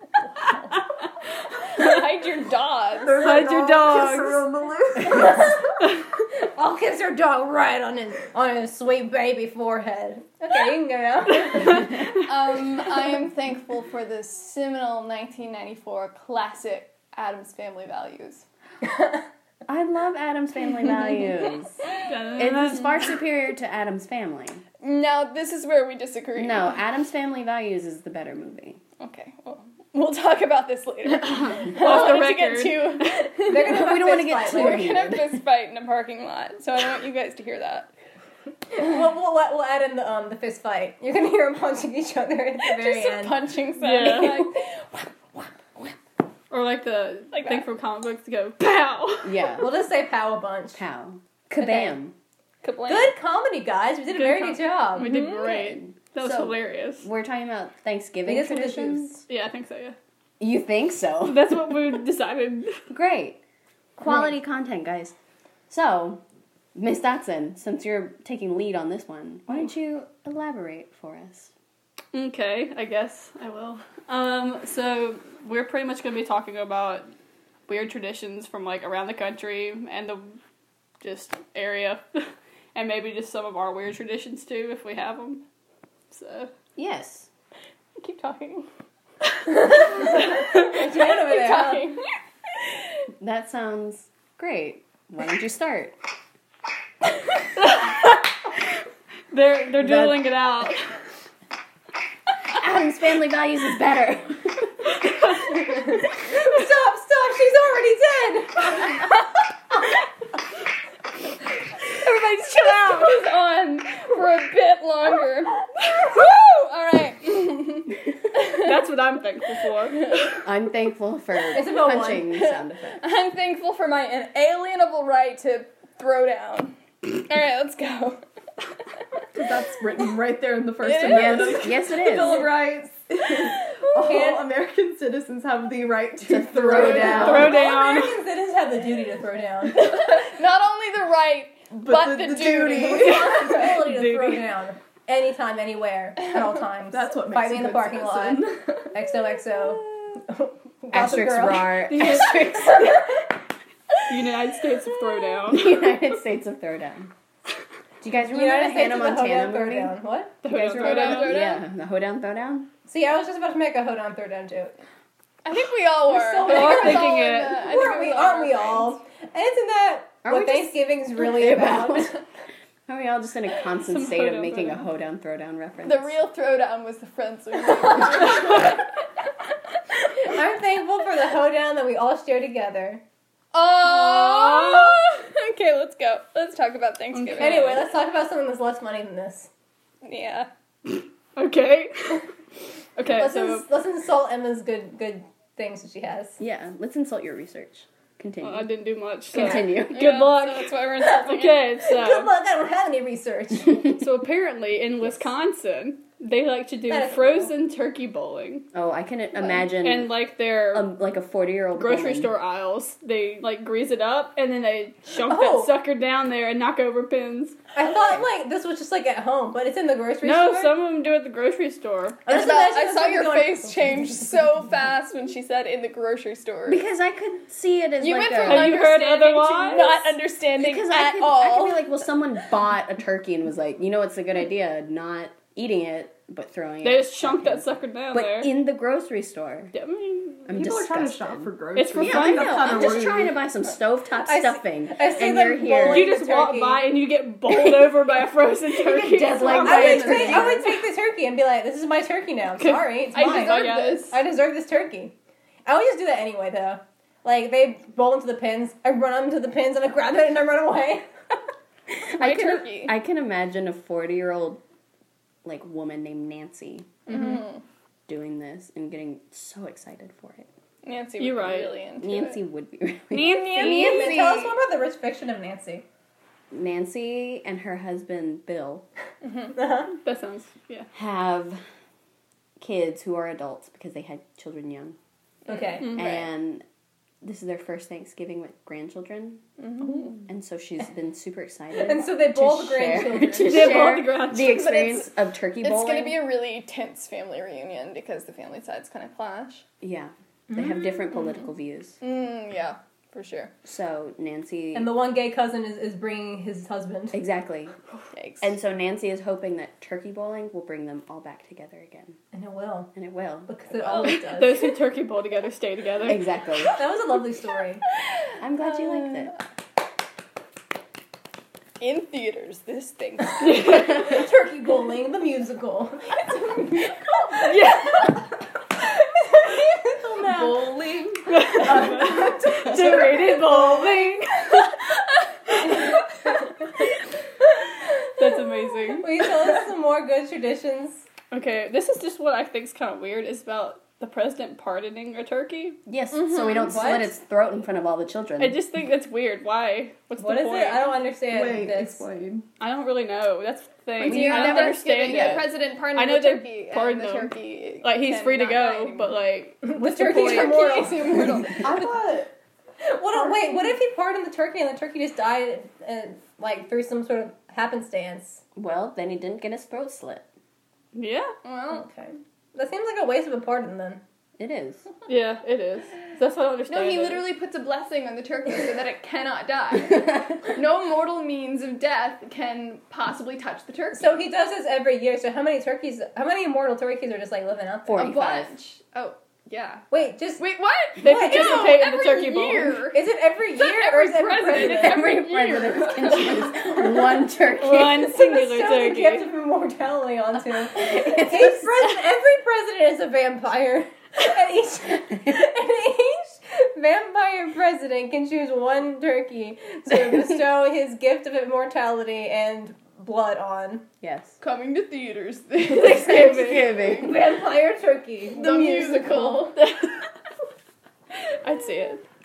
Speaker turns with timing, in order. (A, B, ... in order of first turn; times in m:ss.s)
0:01.7-0:03.3 A
0:03.0-0:05.5 B
0:03.2-0:04.5 C
0:05.0-0:11.9 D
0:11.6-0:18.4 A
0:18.8-0:19.3 D
0:19.7-0:21.8 E
0:22.1-0:23.2 C
0:22.3-0:24.6 E
0:24.8-0:26.8 A
0:26.4-0:28.8 E
0:29.0-0:37.9 A
0:31.2-0:33.5 C
0:33.5-0:34.9 D
0:33.6-0:35.4 E
0:38.7-0:43.5 D
0:42.6-0:44.9 A
0:43.8-0:44.5 C
0:46.5-0:49.5 C
0:47.3-0:47.7 A
0:49.2-0:49.7 E
0:49.6-0:50.8 D
0:50.7-0:52.1 E
0:51.6-0:52.0 D
0:52.6-0:53.1 A
0:52.9-0:55.1 D
0:54.1-0:57.1 C
0:55.0-0:55.5 A
0:55.4-0:59.2 E
0:58.3-0:59.2 D
0:59.3-1:00.0 C
1:00.4-1:01.8 E
1:01.2-1:02.8 C
1:02.9-1:03.4 E
1:04.0-1:05.2 E
1:05.7-1:06.2 E
1:06.8-1:11.5 E
1:12.1-1:17.0 C
1:17.7-1:20.4 C
1:21.0-1:25.4 C
1:26.1-1:26.5 C
1:26.8-1:27.3 E
1:28.0-1:28.7 A
1:29.7-1:32.0 D
1:29.8-1:32.0 A
1:33.2-1:36.0 E
1:37.6-1:38.2 C
1:39.3-1:40.9 C
1:39.8-1:40.4 E
1:42.5-1:44.9 E
1:45.9-1:49.0 D
1:52.0-1:53.2 C
1:53.0-1:58.7 A
1:58.5-2:00.2 C
2:00.0-2:00.3 A
2:00.3-2:03.0 E
2:01.5-2:02.3 D
2:02.0-2:08.2 A
2:09.3-2:17.4 B
2:10.8-2:12.0 A
2:11.0-2:12.5 E
2:14.0-2:14.4 D
2:16.2-2:17.6 E
2:16.5-2:20.0 D
2:17.1-2:18.2 C
2:19.8-2:23.4 A
2:21.7-2:23.6 B
2:22.8-2:32.0 D
2:23.4-2:24.5 C
2:26.9-2:28.9 B
2:30.9-2:33.1 E
2:31.9-2:33.1 C
2:34.1-2:35.9 C
2:35.5-2:37.1 E
2:38.0-2:42.7 E
2:38.3-2:40.4 D
2:40.4-2:41.5 C
2:40.7-2:41.6 A
2:42.9-2:44.8 D
2:45.4-2:48.8 A
2:46.0-2:52.2 D
2:46.4-2:47.7 C
2:50.2-2:52.2 E
2:52.9-2:56.2 E
2:53.8-2:54.8 C
2:55.8-2:58.9 A
3:00.2-3:03.0 D
3:03.5-3:07.8 A
3:03.8-3:05.0 C
3:07.1-3:07.9 C
3:07.4-3:09.5 D
3:10.0-3:10.5 A
3:11.4-3:12.2 C
3:13.0-3:13.6 C
3:13.1-3:16.4 D
3:16.4-3:18.7 E
3:18.4-3:22.3 C
3:19.3-3:20.2 E
3:19.5-3:21.7 A
3:21.8-3:23.8 D
3:23.8-3:28.7 C
3:26.9-3:27.5 D
3:28.7-3:32.3 E
3:29.7-3:30.9 C
3:31.8-3:37.6 C
3:35.3-3:35.7 D
3:37.7-3:40.7 D
3:40.2-3:42.2 C
3:42.3-3:44.7 D
3:42.3-3:46.8 A
3:46.7-3:48.8 E
3:48.0-3:51.9 A
3:48.4-3:50.2 C
3:50.6-3:59.7 E
3:56.8-3:58.5 C
3:59.7-4:00.5 C
4:00.5-4:06.1 E
4:00.5-4:03.4 B
4:01.8-4:02.9 C
4:04.2-4:06.8 D
4:05.8-4:10.6 C
4:07.5-4:07.9 E
4:08.8-4:10.7 E
4:09.6-4:15.1 D
4:12.6-4:14.2 C
4:13.1-4:14.1 A
4:15.7-4:21.1 D
4:22.1-4:23.0 A
4:22.1-4:24.6 E
4:25.4-4:27.0 E
4:27.1-4:27.6 A
4:27.1-4:27.4 D
4:28.1-4:30.5 E
4:30.8-4:32.4 A
4:31.2-4:31.8 C
4:32.0-4:34.6 E
4:33.1-4:34.3 C
4:33.4-4:35.8 D
4:36.5-4:38.9 E
4:39.2-4:39.6 A
4:39.5-4:39.9 D
4:39.9-4:40.9 C
4:40.9-4:41.6 E
4:42.6-4:45.0 E
4:45.5-4:46.0 D
4:45.8-4:46.3 A
4:45.9-4:46.6 E
4:47.2-4:49.4 E
4:49.6-4:50.2 A
4:49.8-4:50.2 D
4:50.3-4:56.2 E
4:51.8-4:53.9 D
4:53.4-4:54.7 C
4:54.4-4:55.1 A
4:55.6-4:59.6 A
4:59.8-5:02.0 E
5:02.0-5:03.5 A
5:03.6-5:04.9 E
5:04.7-5:07.2 D
5:07.1-5:07.8 E
5:08.1-5:08.5 A
5:08.4-5:12.2 E
5:12.3-5:12.9 D
5:13.0-5:13.5 E
5:13.5-5:14.7 D
5:14.0-5:16.4 C
5:16.0-5:16.8 E
5:16.8-5:17.8 D
5:18.4-5:19.3 E
5:21.8-5:23.9 A
5:23.4-5:23.8 C
5:23.5-5:27.7 D
5:27.4-5:28.2 C
5:29.3-5:31.0 D
5:30.2-5:34.2 B
5:31.3-5:34.7 C
5:38.2-5:39.3 C
5:39.0-5:41.0 D
5:41.3-5:45.8 C
5:45.9-5:48.6 E
5:46.1-5:46.8 A
5:46.5-5:47.1 D
5:48.4-5:51.0 C
5:50.2-5:52.0 D
5:51.3-5:52.5 B
5:52.6-6:00.8 C
5:54.0-5:59.1 A
5:54.0-5:55.5 E
5:59.6-6:01.4 D
6:00.0-6:01.8 A
6:01.5-6:02.3 B
6:02.8-6:08.4 D
6:08.6-6:10.3 E
6:10.9-6:11.3 C
6:11.4-6:11.8 A
6:11.7-6:14.0 D
6:14.4-6:14.8 E
6:15.1-6:17.2 C
6:16.7-6:24.2 A
6:23.9-6:28.1 D
6:27.9-6:28.5 E
6:28.0-6:29.9 A
6:29.9-6:30.5 D
6:30.4-6:33.0 A
6:31.0-6:31.8 D
6:31.0-6:32.9 C
6:32.9-6:35.1 D
6:33.6-6:37.2 A
6:34.5-6:38.1 E
6:37.6-6:39.3 C
6:37.8-6:53.9 D
6:40.6-6:41.8 E
6:54.0-6:54.4 E
6:54.4-6:57.1 A
6:55.7-6:56.7 C
6:55.8-6:57.2 E
6:56.9-6:59.5 D
6:58.4-6:59.6 A
6:59.6-7:00.0 C
7:01.4-7:02.0 C